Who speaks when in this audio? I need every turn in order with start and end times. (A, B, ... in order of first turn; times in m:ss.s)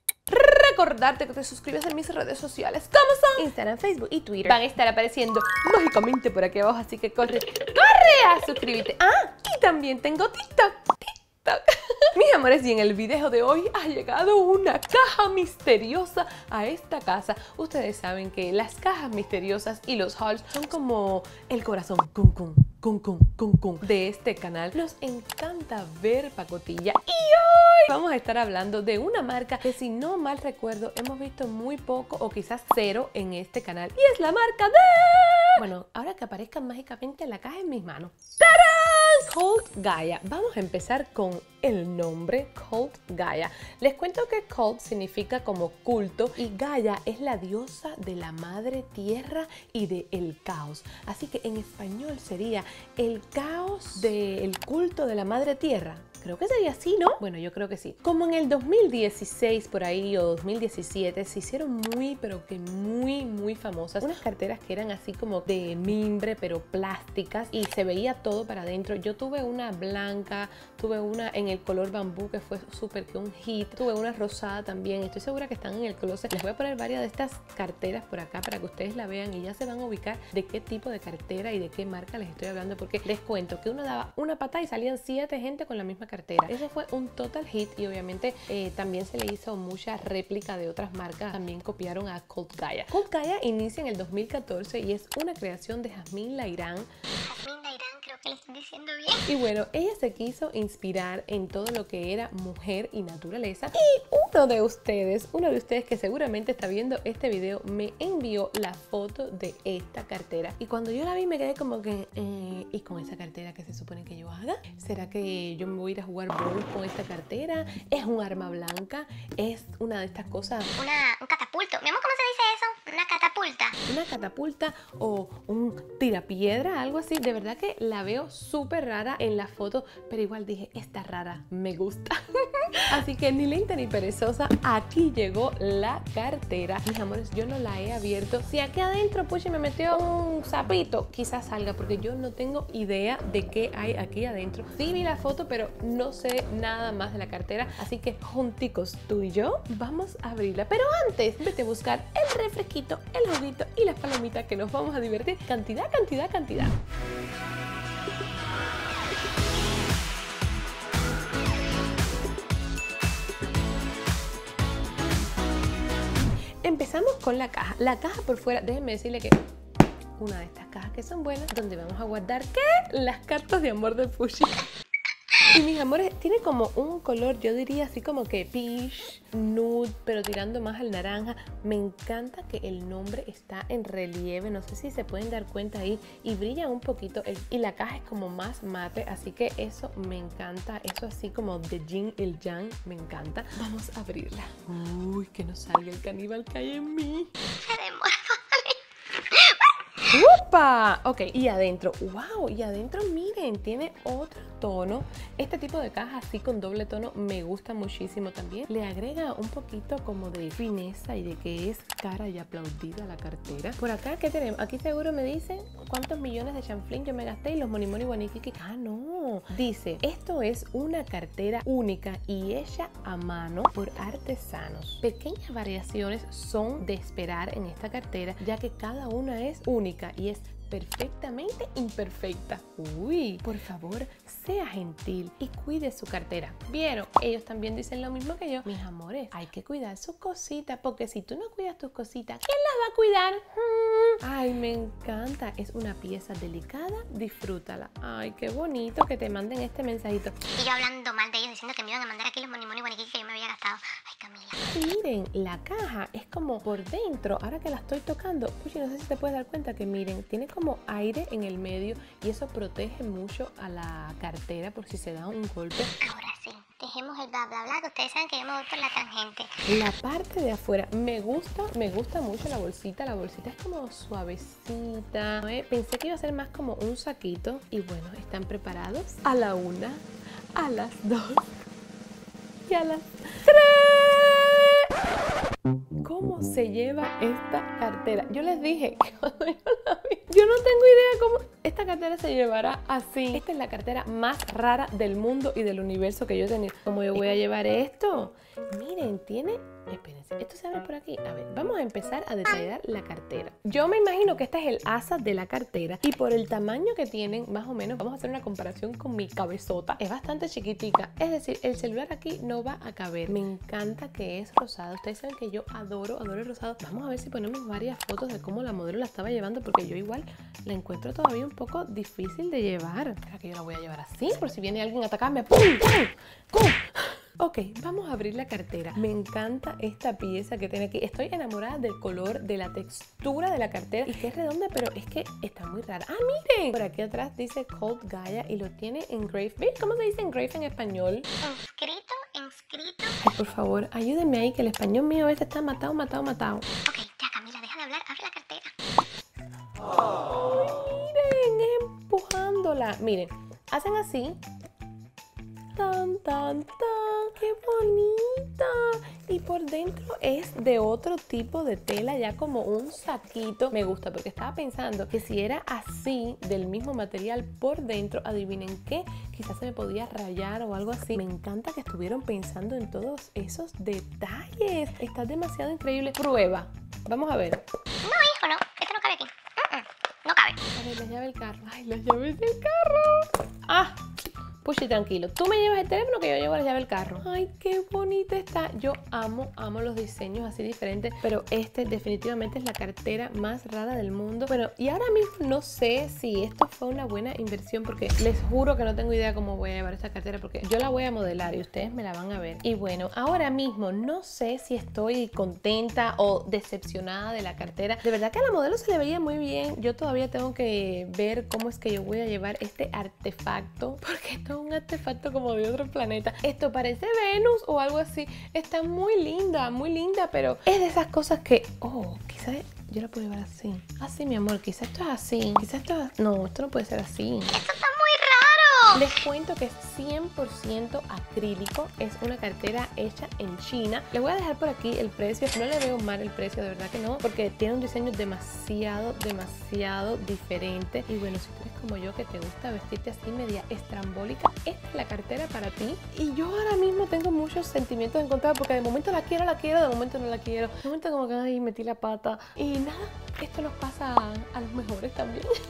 0:00.3-1:36.9 A
1:37.2-1:39.2 B
1:39.2-2:00.7 A
2:00.8-2:03.8 B
2:03.8-2:12.2 A
2:12.8-2:36.8 A
2:46.6-2:49.4 A
2:50.2-2:54.7 A
2:55.4-3:17.3 A
3:17.6-3:19.8 B
3:20.1-4:10.4 A
4:10.4-4:14.6 B
4:14.6-4:25.9 A
4:26.0-4:29.5 B
4:29.6-4:41.5 A
4:42.7-4:44.9 A
4:46.0-5:41.3 A
5:41.4-5:43.2 B
5:43.2-5:46.6 A
5:46.8-5:48.7 B
5:50.2-5:54.4 A
5:55.7-6:17.6 A
6:18.0-6:20.6 B
6:20.6-6:24.0 A
6:24.6-7:07.5 A
7:07.5-7:09.1 B
7:08.9-7:35.5 A